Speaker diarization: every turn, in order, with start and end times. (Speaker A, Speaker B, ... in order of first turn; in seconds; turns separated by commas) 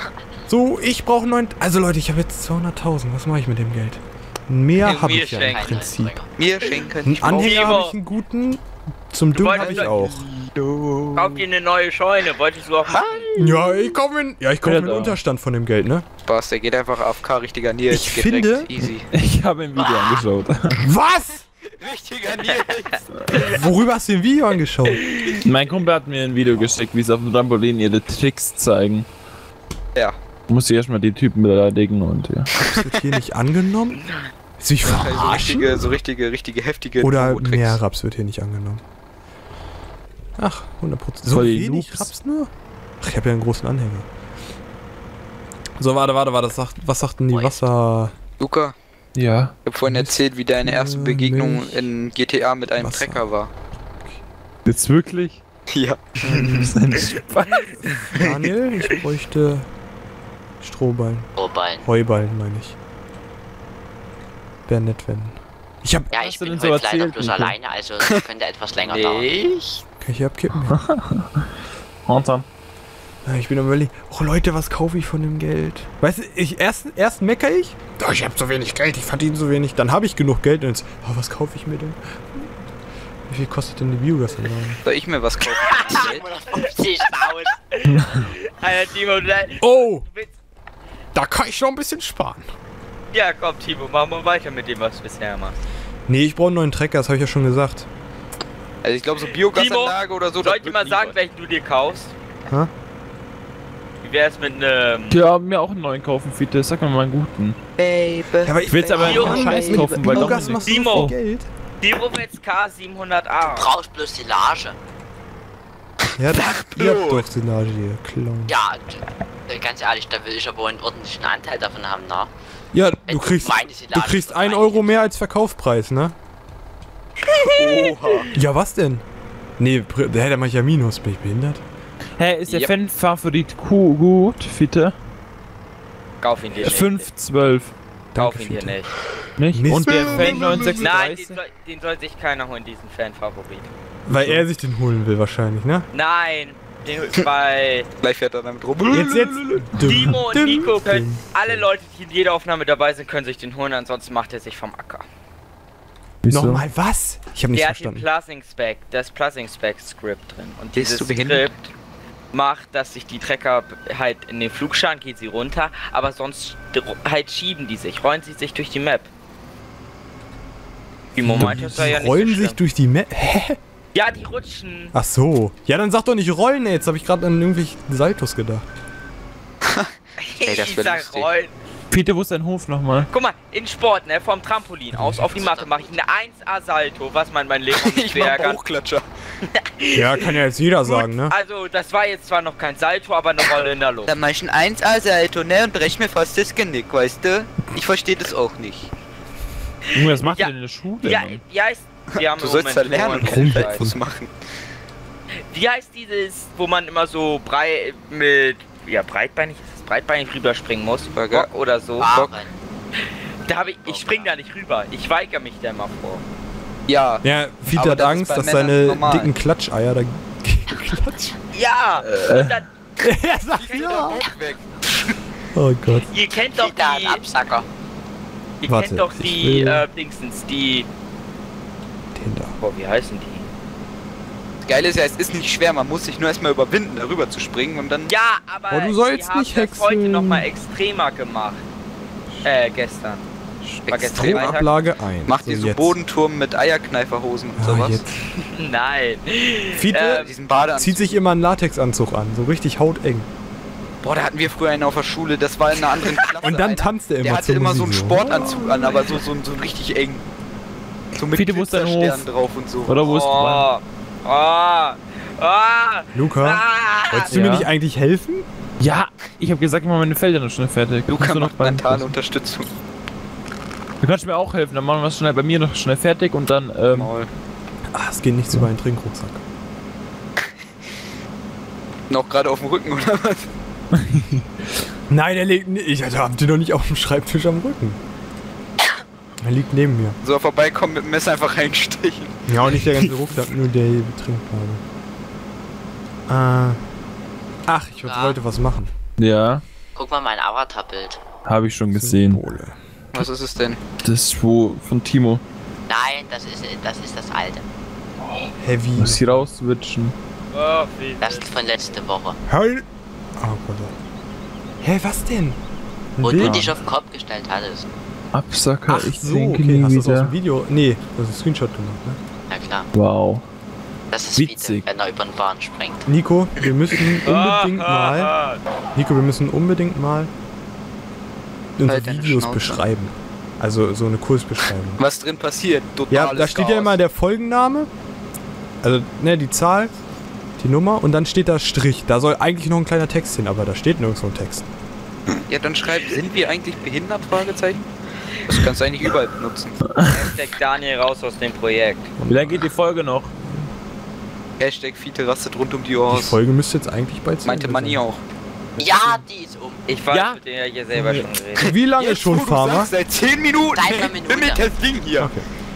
Speaker A: 0.5-6.2, Speaker B: 4.8-5.7, Speaker C: 5.4-6.3, Speaker D: 6.4-7.9, Speaker A: 7.0-10.3, Speaker B: 7.3-8.0, Speaker B: 9.3-9.9, Speaker D: 9.5-11.4, Speaker B: 11.2-13.3, Speaker D: 12.9-13.8, Speaker A: 13.3-16.1, Speaker E: 14.6-15.2, Speaker D: 16.2-19.1, Speaker A: 17.9-18.7, Speaker E: 19.1-20.8, Speaker A: 20.7-21.4, Speaker D: 21.8-23.0, Speaker A: 23.4-25.1, Speaker B: 25.1-25.4, Speaker E: 25.4-29.1, Speaker E: 30.5-32.5, Speaker A: 32.6-34.0, Speaker A: 34.6-36.0, Speaker D: 34.8-37.8, Speaker A: 37.0-38.8, Speaker A: 40.4-44.1, Speaker E: 41.3-42.1, Speaker A: 45.8-48.2, Speaker C: 47.3-47.7, Speaker D: 48.4-48.8, Speaker E: 49.1-49.5, Speaker D: 49.6-53.5, Speaker A: 49.8-51.9, Speaker A: 52.8-53.3, Speaker E: 54.6-55.4, Speaker D: 55.7-56.7, Speaker E: 56.2-57.9, Speaker A: 56.2-56.8, Speaker A: 57.8-59.7, Speaker A: 60.6-61.3, Speaker C: 61.4-61.9, Speaker A: 61.8-62.8, Speaker A: 64.7-66.1, Speaker C: 66.1-69.4, Speaker E: 66.1-67.5, Speaker B: 68.8-69.8, Speaker A: 70.0-70.8, Speaker E: 70.7-71.3, Speaker E: 72.1-72.5, Speaker A: 73.2-82.5, Speaker A: 83.3-84.8, Speaker D: 84.8-86.3, Speaker B: 85.5-90.3, Speaker C: 85.8-87.4, Speaker A: 89.6-90.1, Speaker A: 91.1-92.5, Speaker B: 93.1-95.6, Speaker A: 96.1-97.9, Speaker D: 98.8-101.2, Speaker B: 99.4-102.1, Speaker B: 104.0-105.2, Speaker E: 105.1-107.6, Speaker D: 107.8-110.5, Speaker A: 108.4-111.5, Speaker E: 108.7-110.6, Speaker B: 109.0-109.6, Speaker B: 110.5-111.1, Speaker B: 111.8-113.7, Speaker C: 113.4-114.8, Speaker A: 116.2-118.6, Speaker D: 116.3-117.3, Speaker C: 118.5-122.3, Speaker A: 122.7-126.2, Speaker C: 123.0-125.1, Speaker B: 127.2-128.2, Speaker D: 127.4-128.3, Speaker A: 128.3-129.0, Speaker A: 129.6-131.6, Speaker E: 132.2-134.9, Speaker D: 132.5-132.8, Speaker B: 136.2-137.1, Speaker E: 136.6-137.7, Speaker A: 138.1-138.8, Speaker B: 138.2-138.9, Speaker E: 139.4-141.4, Speaker A: 139.5-140.7, Speaker D: 139.9-140.8, Speaker B: 140.8-143.7, Speaker A: 144.1-145.9, Speaker E: 144.1-144.5, Speaker B: 145.9-147.9, Speaker D: 148.0-149.7, Speaker A: 148.9-151.7, Speaker B: 149.8-155.1, Speaker E: 156.2-156.6, Speaker A: 156.3-158.1, Speaker B: 157.5-161.7, Speaker D: 160.8-161.5, Speaker B: 162.3-169.1, Speaker B: 171.1-172.6, Speaker A: 171.2-173.6, Speaker E: 171.3-171.8, Speaker B: 173.9-174.9, Speaker A: 174.9-178.7, Speaker B: 180.2-181.5, Speaker D: 180.4-181.3, Speaker E: 181.9-183.1, Speaker B: 183.1-188.6, Speaker A: 184.9-185.3, Speaker C: 185.4-186.1, Speaker D: 187.7-189.1, Speaker B: 189.6-194.2, Speaker A: 189.9-191.3, Speaker D: 194.1-198.9, Speaker E: 199.9-201.4, Speaker B: 200.2-203.8, Speaker D: 202.2-204.3, Speaker A: 203.2-204.0, Speaker B: 205.5-212.2, Speaker D: 211.1-211.5, Speaker C: 212.0-212.5, Speaker D: 212.0-212.4, Speaker B: 213.5-216.2, Speaker C: 213.6-214.4, Speaker D: 216.9-219.3, Speaker A: 217.2-221.4, Speaker B: 221.5-224.3, Speaker E: 222.0-222.6, Speaker A: 223.0-224.2, Speaker D: 223.6-224.9, Speaker A: 225.5-226.1, Speaker B: 226.0-227.2, Speaker C: 226.5-227.7, Speaker B: 228.6-230.9, Speaker A: 228.7-229.9, Speaker A: 232.1-232.6, Speaker B: 232.6-233.5, Speaker D: 234.6-238.1, Speaker B: 238.1-241.6, Speaker A: 238.7-240.5, Speaker B: 242.4-243.2, Speaker D: 243.9-244.6, Speaker B: 243.9-244.8, Speaker A: 243.9-246.0, Speaker D: 245.3-248.0, Speaker A: 247.6-248.1, Speaker B: 248.6-250.3, Speaker A: 249.7-253.3, Speaker D: 250.2-251.2, Speaker D: 254.0-260.2, Speaker A: 256.4-259.2, Speaker D: 261.1-263.2, Speaker E: 261.3-262.3, Speaker E: 262.9-263.7, Speaker B: 263.0-267.4, Speaker A: 266.1-268.5, Speaker E: 267.3-267.7, Speaker E: 268.8-272.1, Speaker D: 271.1-272.7, Speaker E: 274.0-277.1, Speaker D: 276.9-277.3, Speaker A: 277.9-279.4, Speaker D: 282.1-283.5, Speaker A: 285.1-288.0, Speaker A: 289.4-290.2, Speaker D: 290.2-292.4, Speaker A: 292.5-294.8, Speaker A: 296.3-296.8, Speaker A: 297.7-298.9, Speaker C: 298.0-298.4, Speaker E: 299.2-299.6, Speaker C: 299.9-301.2, Speaker E: 301.4-302.4, Speaker A: 301.9-302.8, Speaker D: 303.1-303.8, Speaker E: 304.0-305.4, Speaker C: 305.9-307.6, Speaker E: 308.2-310.1, Speaker A: 308.6-309.5, Speaker B: 310.5-311.5, Speaker C: 311.2-312.4, Speaker A: 312.5-312.9, Speaker A: 313.4-313.9, Speaker A: 314.8-315.6, Speaker A: 316.2-316.7, Speaker C: 316.2-317.9, Speaker E: 316.4-316.7, Speaker E: 318.3-320.4, Speaker A: 318.9-322.2, Speaker C: 322.5-322.9, Speaker E: 322.9-323.4, Speaker C: 324.1-326.1, Speaker E: 324.3-324.9, Speaker A: 326.1-328.3, Speaker B: 327.2-328.6, Speaker A: 328.9-330.3, Speaker A: 331.8-335.0, Speaker D: 331.9-332.8, Speaker D: 335.0-337.0, Speaker A: 336.1-337.9, Speaker A: 338.8-339.9, Speaker A: 340.6-344.7, Speaker D: 345.3-347.9, Speaker D: 348.5-349.8, Speaker B: 350.0-352.1, Speaker A: 352.2-352.8, Speaker E: 352.3-353.3, Speaker A: 353.4-353.7, Speaker D: 354.6-356.4, Speaker A: 356.1-358.0, Speaker D: 357.4-358.2, Speaker A: 358.8-359.2, Speaker C: 358.8-359.9, Speaker B: 359.9-361.7, Speaker E: 360.1-360.4, Speaker A: 360.9-362.9, Speaker D: 361.6-365.3, Speaker C: 363.7-364.7, Speaker A: 365.2-365.5